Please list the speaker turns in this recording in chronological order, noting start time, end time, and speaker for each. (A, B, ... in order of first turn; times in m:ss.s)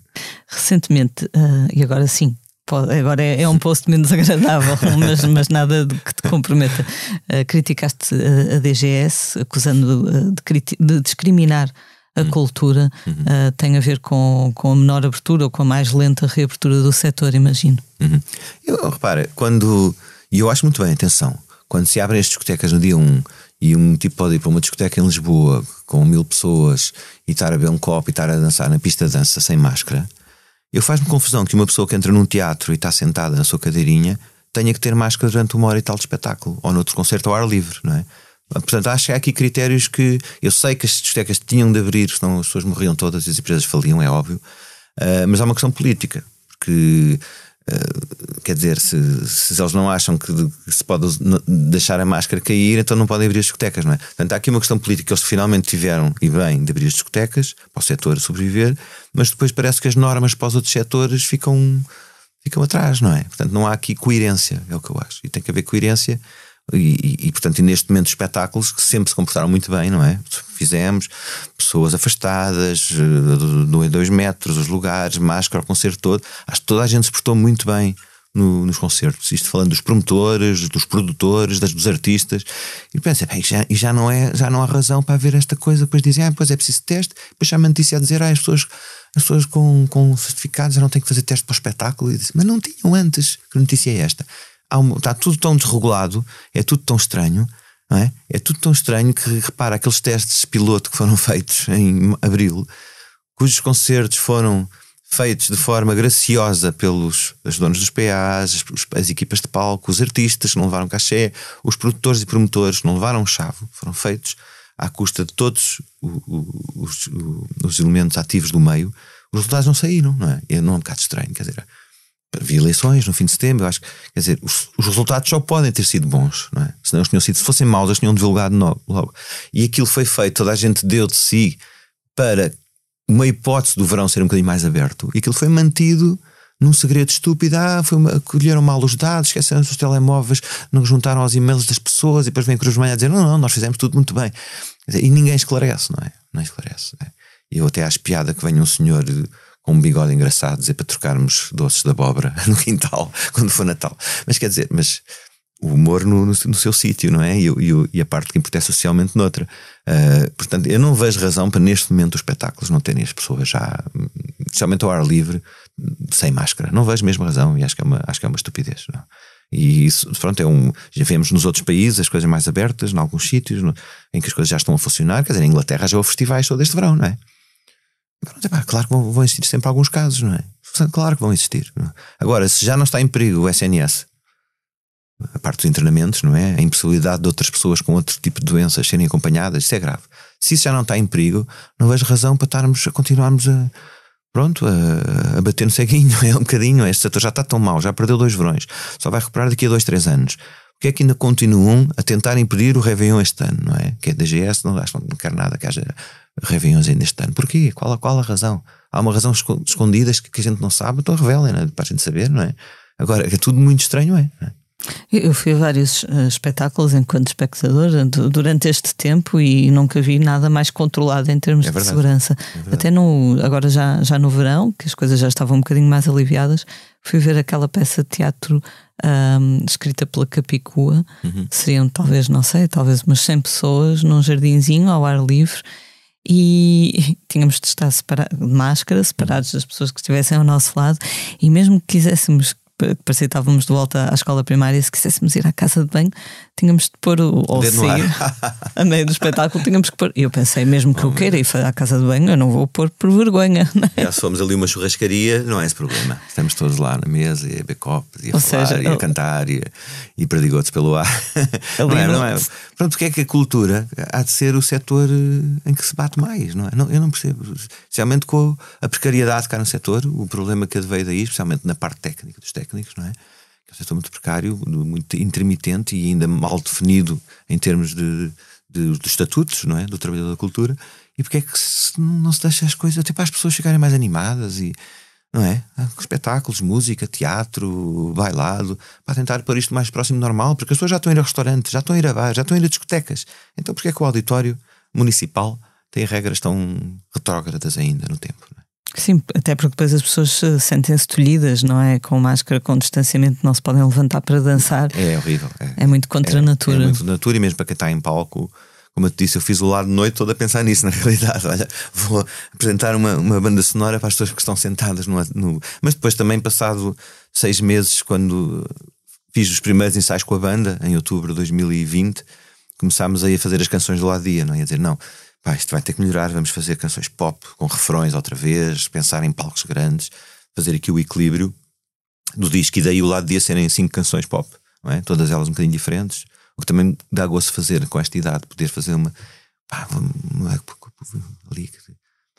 0:00.5-0:17.8 A
0:18.0-0:30.1 B
0:30.7-0:44.4 B
0:45.0-1:01.9 B
1:02.4-1:42.7 B
1:43.4-2:01.7 B
2:02.3-2:11.6 B
2:12.2-2:12.5 B
2:13.1-2:24.3 B
2:24.9-2:35.0 B
2:35.6-2:57.2 B
2:58.2-3:04.1 B
3:05.2-3:13.7 B
3:14.3-3:34.5 B
3:35.1-3:55.6 A
3:41.6-3:42.9 B
3:51.2-3:51.5 B
3:56.2-4:08.2 A
4:07.5-4:08.7 B
4:08.7-4:14.1 A
4:10.9-4:11.4 B
4:13.9-4:33.2 B
4:18.3-4:19.0 A
4:21.8-4:22.4 A
4:33.7-4:44.8 B
4:45.3-4:58.6 B
4:59.0-5:05.0 A
5:04.9-5:18.7 B
5:05.8-5:07.0 A
5:19.3-5:22.2 B
5:22.8-5:31.6 B
5:32.4-5:39.1 B
5:39.7-5:41.9 B